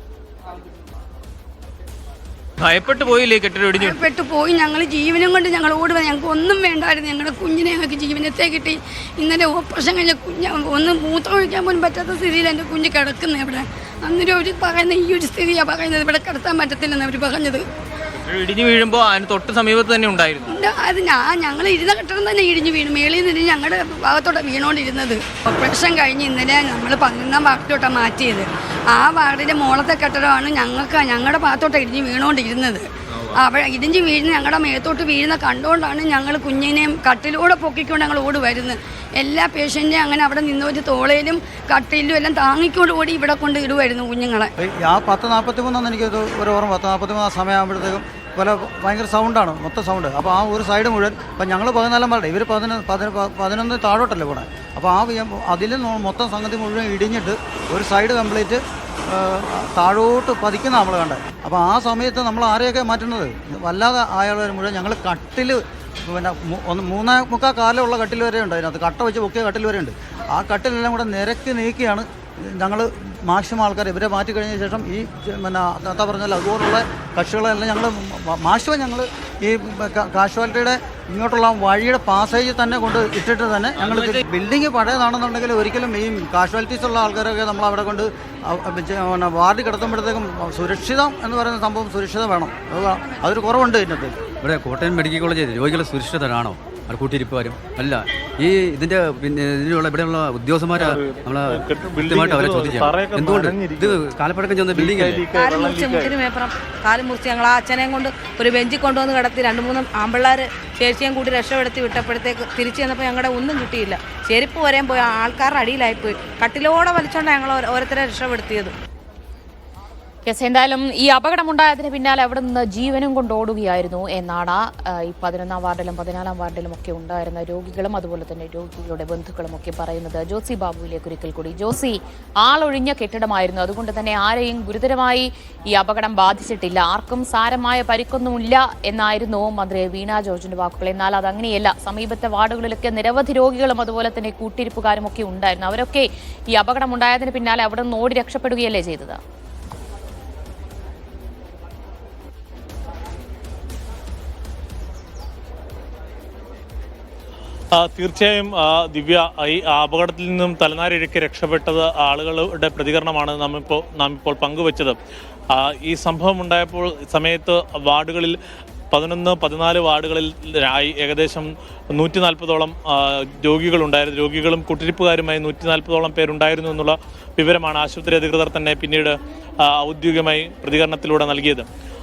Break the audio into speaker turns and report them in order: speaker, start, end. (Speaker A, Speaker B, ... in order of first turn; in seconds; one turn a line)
Speaker A: 2.6-4.0
Speaker B: 3.8-17.7
Speaker A: 18.3-20.5
Speaker B: 20.5-44.5
Speaker C: 44.6-94.1
Speaker A: 83.8-84.2
Speaker D: 94.4-105.2
Speaker E: 100.7-104.0
Speaker E: 104.7-106.2
Speaker F: 105.3-118.7
Speaker G: 120.2-149.2
Speaker E: 157.8-164.9
Speaker E: 165.5-168.3
Speaker E: 168.9-181.7